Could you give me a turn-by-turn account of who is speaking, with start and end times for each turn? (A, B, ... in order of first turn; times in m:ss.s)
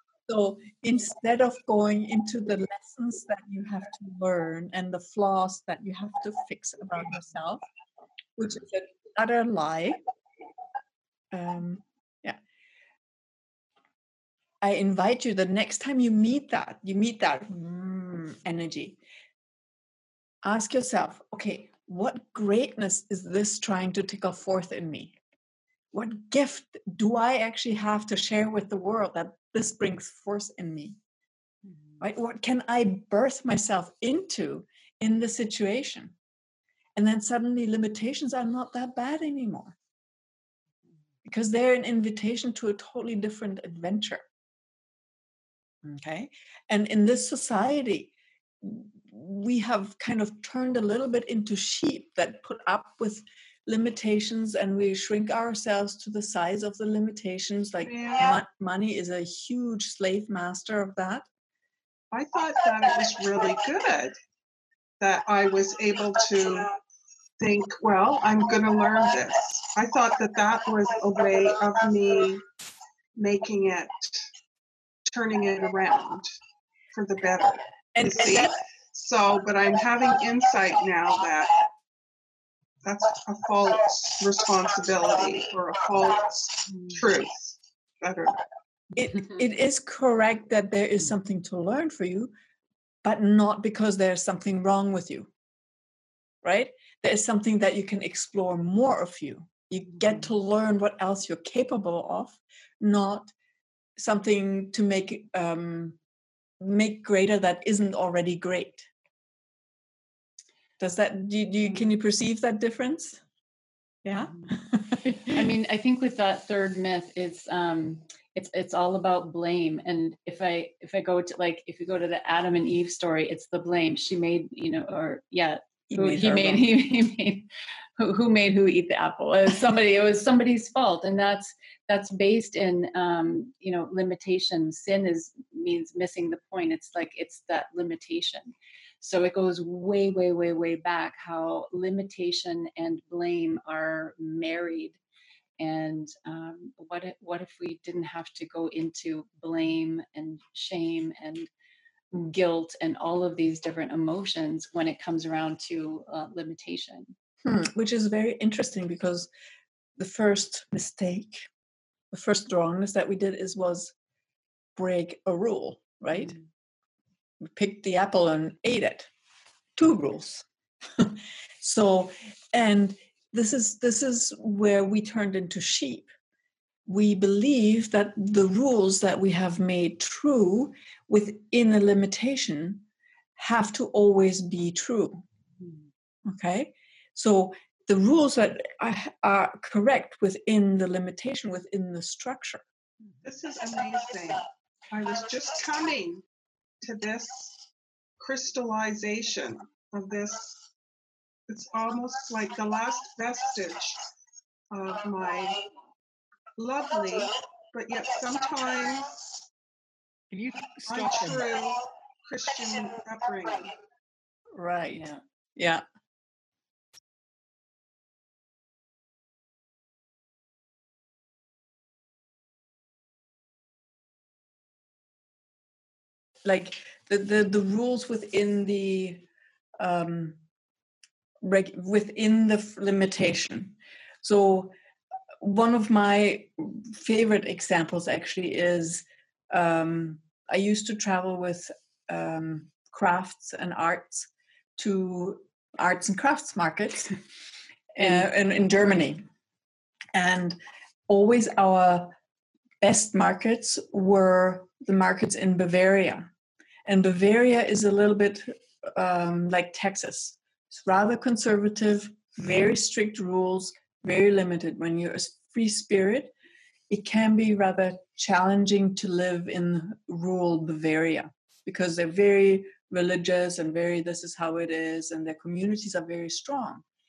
0:00.3-0:07.6 A
0:08.4-0:10.0 A
0:11.3-0:12.4 A
0:14.6-0:19.0 A
0:20.4-0:25.2 A
0:25.9-0:31.0 A
0:32.0-0:36.2 A
0:37.0-0:39.8 A
0:41.2-0:44.2 A
0:45.8-1:01.3 A
0:57.9-0:58.3 B
1:02.1-1:04.2 B
1:05.0-1:06.7 B
1:07.4-1:12.4 B
1:13.2-1:14.2 B
1:15.1-1:16.3 B
1:16.9-1:21.6 B
1:18.0-1:18.3 A
1:22.8-1:28.4 B
1:28.9-1:32.3 A
1:33.0-1:35.3 A
1:36.4-1:43.3 A
1:44.0-1:46.0 A
1:46.6-1:48.9 A
1:50.8-1:53.2 A
1:54.0-1:55.4 A
1:55.0-2:07.5 C
2:05.9-2:06.7 A
2:08.0-2:25.0 C
2:25.6-2:31.5 C
2:32.1-2:37.2 C
2:37.4-2:39.3 A
2:40.0-2:41.5 A
2:42.1-2:43.9 A
2:44.8-2:46.4 A
2:47.4-2:49.1 A
2:49.8-2:56.1 A
2:56.9-3:02.8 A
3:03.4-3:05.2 A
3:06.3-3:12.6 A
3:13.2-3:16.2 B
3:16.8-3:17.6 B
3:18.2-3:20.6 B
3:21.5-3:24.0 B
3:24.7-3:25.6 B
3:26.6-3:29.2 B
3:30.8-3:33.7 B
3:34.5-3:35.8 A
3:46.4-3:49.3 A
3:49.8-3:50.4 A
3:51.4-3:54.7 A
3:55.4-4:07.2 A
4:07.9-4:09.2 A
4:10.1-4:12.1 A
4:12.8-4:16.3 A
4:16.9-4:26.3 A
4:26.9-4:36.8 A